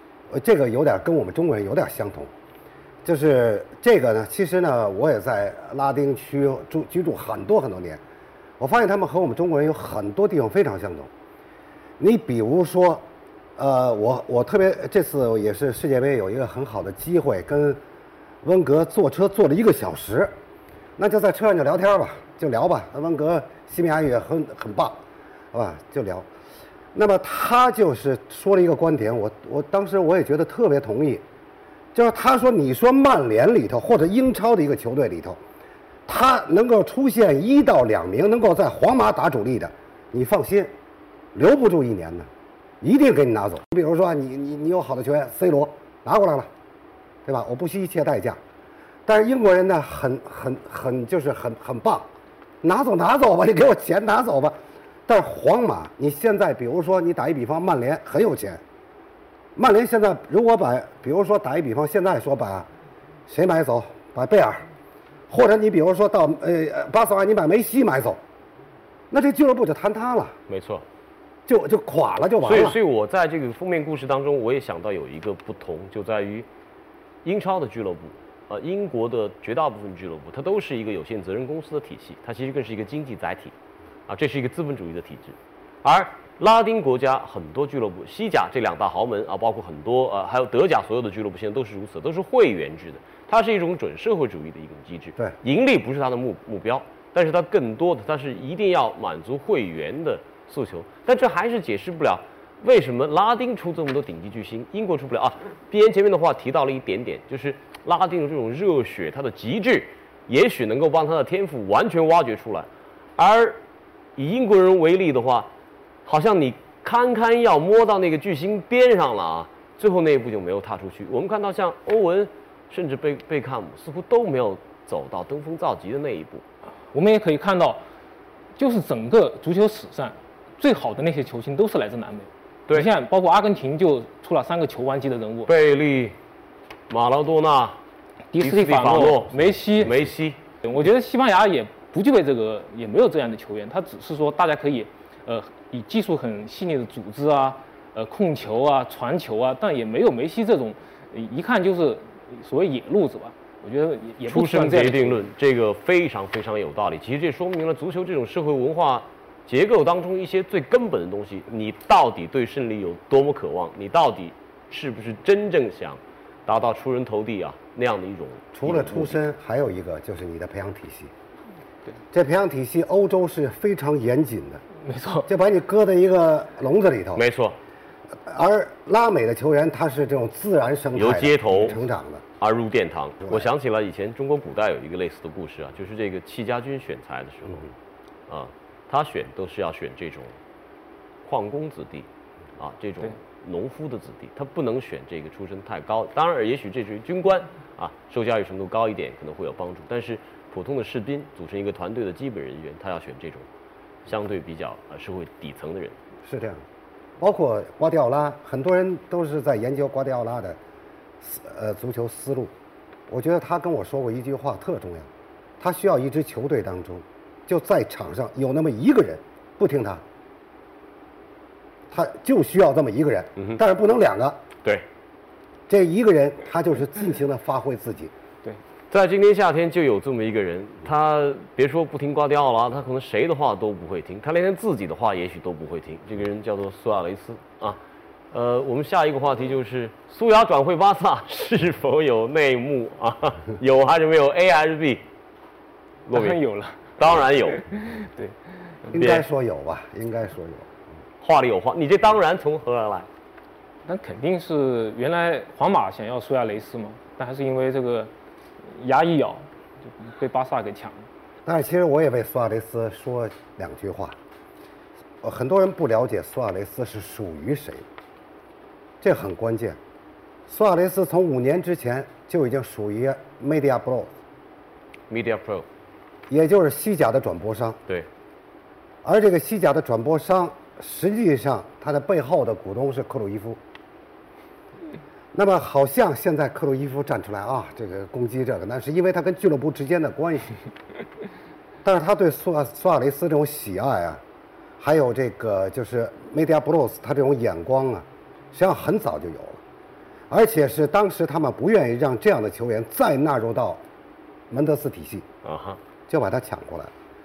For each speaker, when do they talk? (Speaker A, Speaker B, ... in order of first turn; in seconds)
Speaker A: 0.3-2.3, 3.0-8.0, 8.6-11.1, 12.0-13.0, 13.6-17.8, 18.4-20.3, 21.0-25.0, 25.5-26.3, 26.9-31.2, 31.9-35.4, 36.1-40.7, 41.3-42.3, 42.8-46.5, 47.2-48.4, 49.0-52.1, 52.6-58.6, 59.5-62.7, 63.3-64.7, 65.3-68.2, 69.1-70.3, 71.5-72.8, 168.5-171.1, 172.1-174.6, 175.3-177.2, 178.2-182.2, 206.2-206.7, 207.2-210.6, 211.2-212.5, 213.1-220.0, 221.9-224.4, 225.7-228.1, 248.9-250.7, 261.4-264.2, 265.2-267.9, 269.0-269.8, 270.5-274.1, 276.3-277.8, 279.0-283.6, 285.3-290.5, 291.8-294.2, 294.8-299.6, 300.3-303.8, 304.5-305.2, 306.1-306.9
Speaker B: 70.5-70.8, 72.4-76.5, 77.2-83.5, 84.1-113.6, 114.2-115.5, 116.0-126.4, 135.5-136.2, 136.9-137.8, 138.4-140.4, 154.2-169.2, 177.2-177.6, 180.9-181.8, 182.4-187.7, 188.3-190.4, 191.2-203.5, 204.1-205.9, 228.9-237.8, 238.3-245.0, 246.1-246.4, 247.0-247.6, 248.9-249.2, 251.2-253.1, 275.1-275.7, 305.4-305.8
Speaker C: 126.9-127.8, 128.6-135.5, 138.3-139.9, 140.6-155.2, 174.8-175.3, 246.1-246.9, 247.5-248.4, 253.8-261.0